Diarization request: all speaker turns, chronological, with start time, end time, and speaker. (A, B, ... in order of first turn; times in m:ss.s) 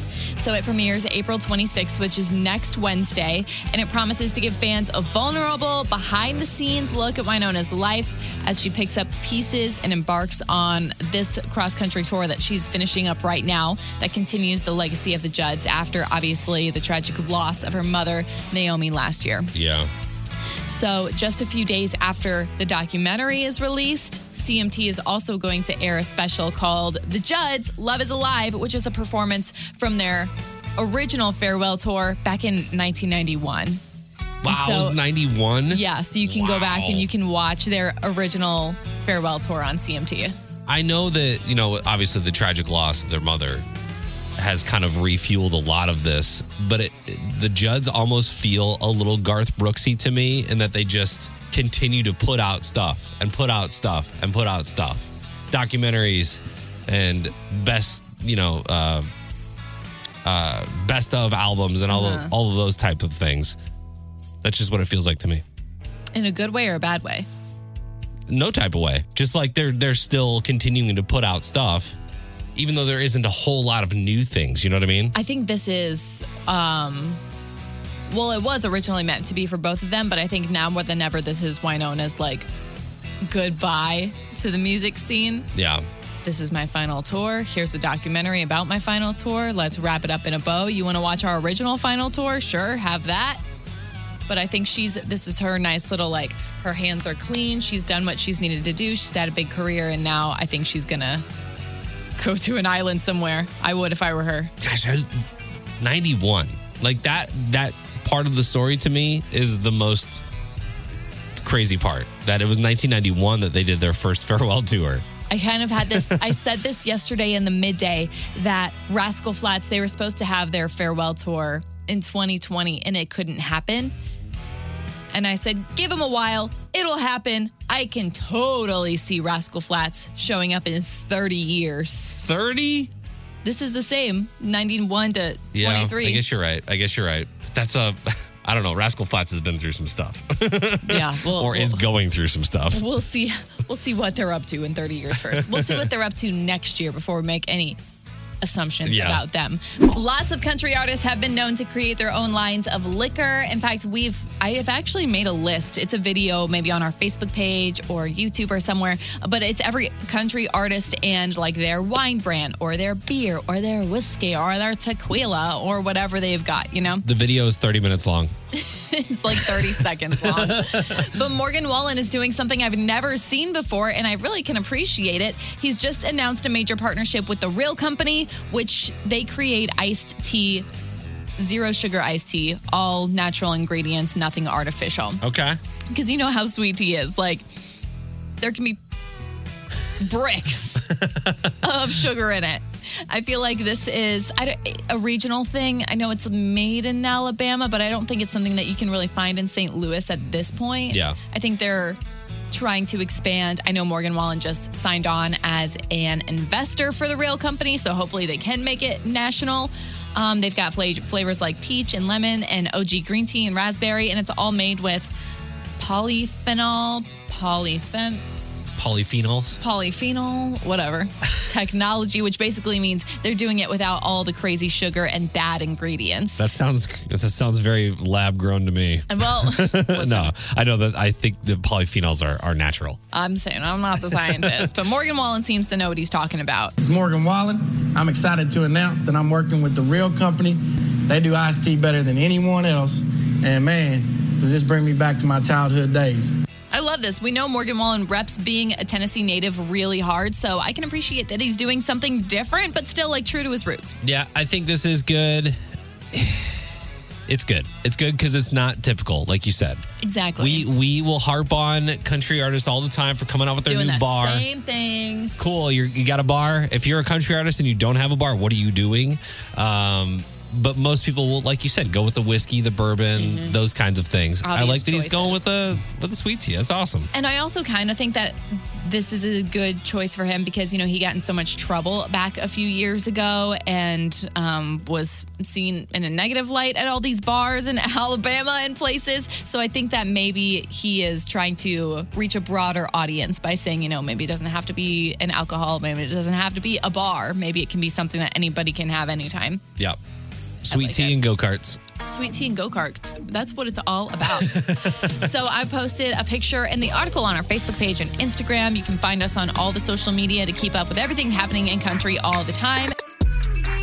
0:00.4-0:19.5 A
0:19.5-0:19.9 B
0:20.7-0:33.8 A
0:34.4-0:37.1 B
0:34.4-0:35.0 A
0:35.7-0:40.3 A
0:40.7-0:43.6 B
0:44.4-0:59.1 B
1:00.2-1:03.6 B
1:01.9-1:02.3 A
1:04.4-1:05.4 B
1:06.1-1:07.3 A
1:08.3-1:12.0 B
1:12.6-1:15.1 B
1:15.1-1:17.2 A
1:18.1-1:22.5 A
1:23.2-1:25.5 A
1:25.5-1:25.8 B
1:26.2-1:33.4 A
1:34.3-1:41.2 A
1:42.2-1:44.5 A
1:44.6-1:45.2 B
1:45.8-1:50.2 B
1:51.4-1:55.0 B
1:55.3-2:03.9 A
2:05.1-2:12.2 A
2:12.2-2:12.9 B
2:13.4-2:16.2 A
2:15.5-2:22.8 B
2:20.8-2:21.8 A
2:22.7-2:27.8 A
2:25.2-2:25.9 B
2:28.4-2:47.0 A
2:28.8-2:29.2 B
2:47.0-2:48.3 B
2:48.5-3:00.6 A
2:50.2-2:51.1 B
3:01.4-3:05.2 A
3:05.2-3:05.6 B
3:05.9-3:07.4 A
3:08.4-3:08.8 A
3:10.0-3:11.0 A
3:11.5-3:22.0 A
3:20.9-3:21.2 B
3:22.5-3:35.1 A
3:35.8-3:38.2 A
3:38.8-3:39.6 B
3:39.6-3:46.5 A
3:46.4-3:53.0 B
3:49.1-3:50.3 A
3:53.1-3:56.8 A
3:54.3-3:54.6 B
3:56.8-4:06.3 C
4:06.7-4:14.0 A
4:14.0-4:15.6 B
4:16.1-4:16.6 B
4:17.3-4:19.8 B
4:20.0-4:20.7 A
4:20.4-4:24.4 B
4:23.6-4:25.6 A
4:25.4-4:37.1 B
4:33.2-4:33.6 A
4:34.4-4:35.4 A
4:37.1-4:59.6 A
5:00.6-5:01.8 B
5:00.7-5:01.2 A
5:02.0-5:12.9 A
5:04.4-5:05.0 B